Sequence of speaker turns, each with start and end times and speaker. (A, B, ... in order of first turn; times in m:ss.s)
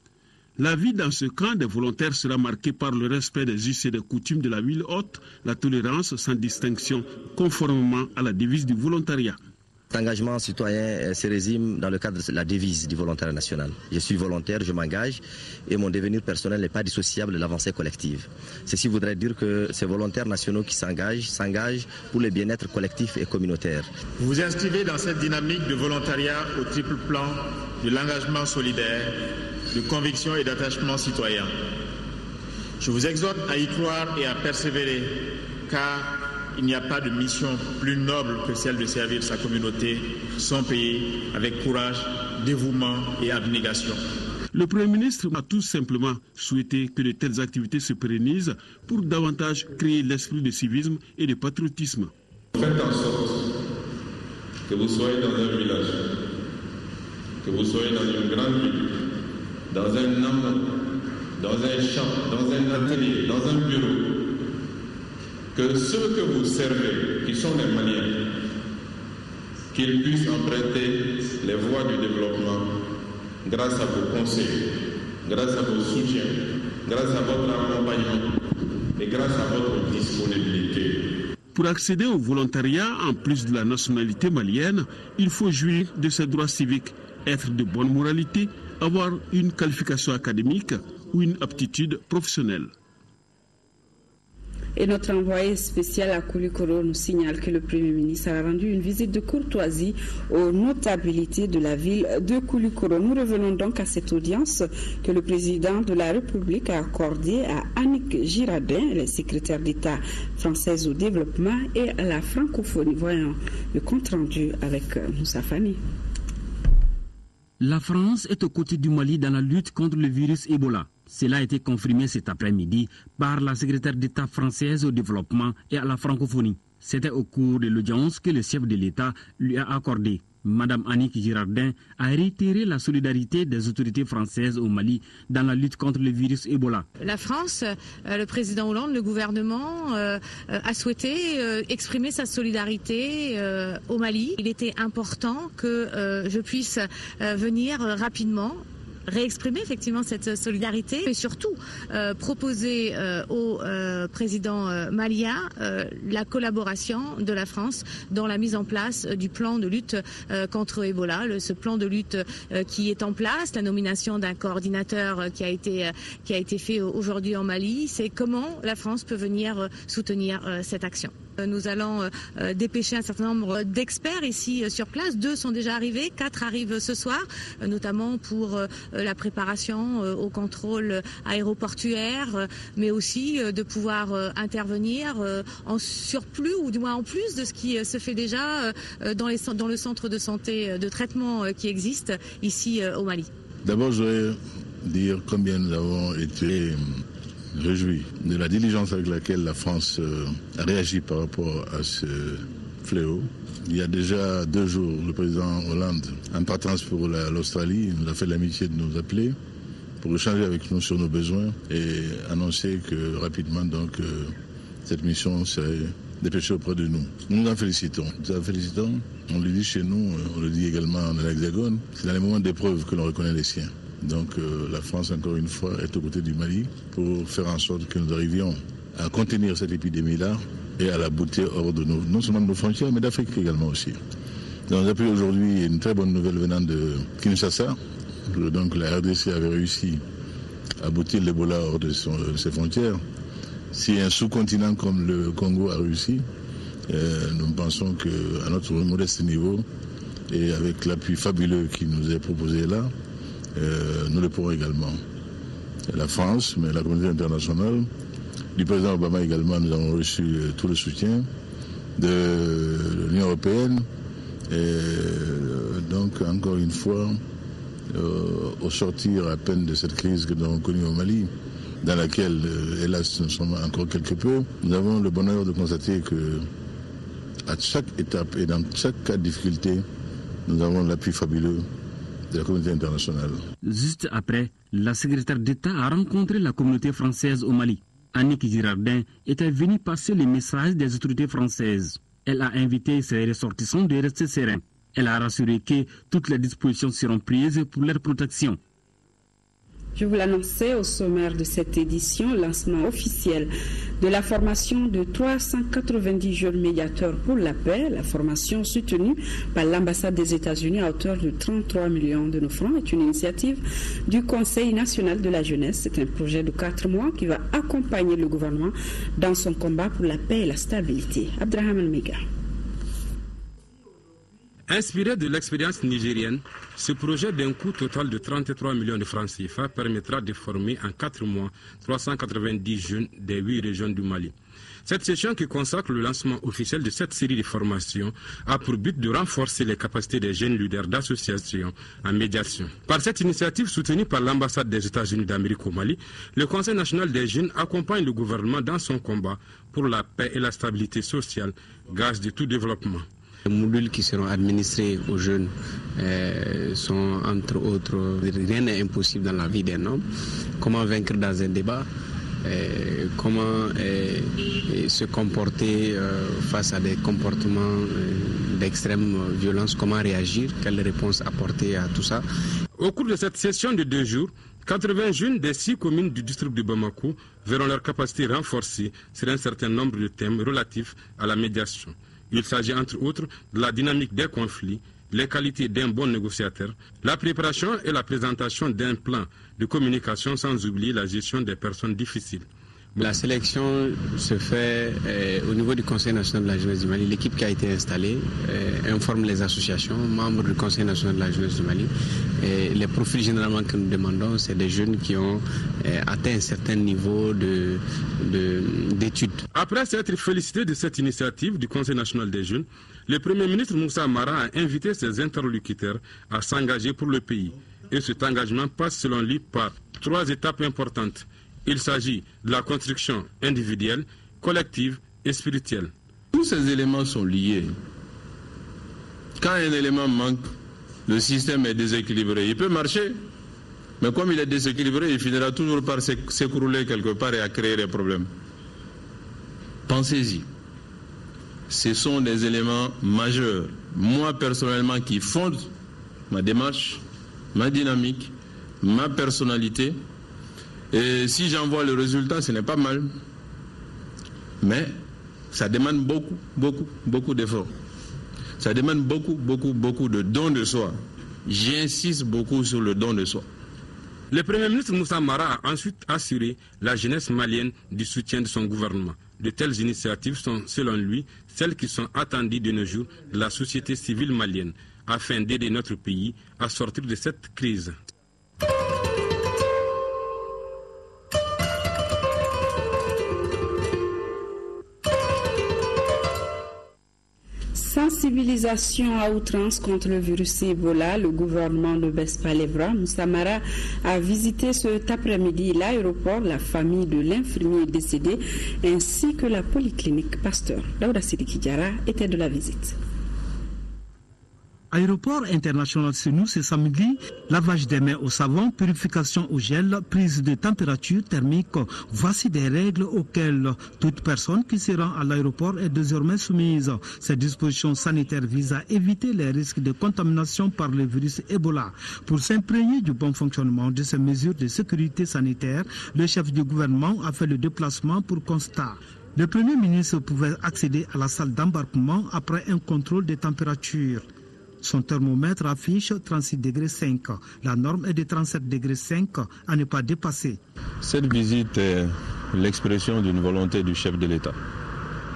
0:00.6-0:09.4 A
0:09.9-0:23.9 B
0:24.2-0:31.5 C
0:32.8-0:44.0 C
0:44.5-0:52.1 A
0:52.6-0:53.5 D
0:54.7-0:56.0 D
0:57.4-0:58.9 D
0:59.7-1:00.7 D
1:01.4-1:04.2 D
1:05.6-1:08.3 D
1:09.7-1:12.8 D
1:13.4-1:14.7 D
1:15.2-1:18.3 D
1:19.0-1:21.0 D
1:21.6-1:32.7 A
1:34.8-1:55.8 E
1:57.6-2:16.9 F
2:17.0-3:13.3 G
3:13.6-3:29.4 H
3:30.0-3:54.0 H
3:54.7-3:57.8 H
3:58.3-4:00.0 H
4:00.8-4:03.0 H
4:03.7-4:06.3 H
4:06.9-4:09.7 H
4:10.3-4:12.9 H
4:13.6-4:15.0 H
4:15.9-4:17.9 H
4:18.6-4:21.3 H
4:22.0-4:23.9 H
4:24.5-4:27.2 H
4:27.9-4:36.5 H
4:37.5-4:39.9 H
4:40.5-4:41.7 H
4:42.3-4:43.5 H
4:43.6-4:58.6 F
5:00.0-5:22.2 E
5:24.7-5:34.3 I
5:34.9-5:53.0 I
5:53.5-6:00.1 J
6:00.6-6:01.9 J
6:02.4-6:12.2 J
6:12.8-6:32.4 I
6:33.0-6:49.4 J
6:49.5-7:05.9 I
7:06.3-7:07.8 D
7:09.4-7:10.5 D
7:11.1-7:13.2 D
7:14.0-7:18.3 D
7:19.9-7:20.4 D
7:21.7-7:25.7 D
7:26.3-7:27.0 D
7:27.6-7:28.3 D
7:28.8-7:30.0 D
7:30.9-7:33.1 D
7:34.6-7:34.9 D
7:35.5-7:37.7 D
7:38.6-7:43.4 D
7:44.3-7:58.0 I
8:07.8-8:23.0 E
8:24.9-8:54.2 K
8:54.8-9:00.6 K
9:01.0-9:04.5 D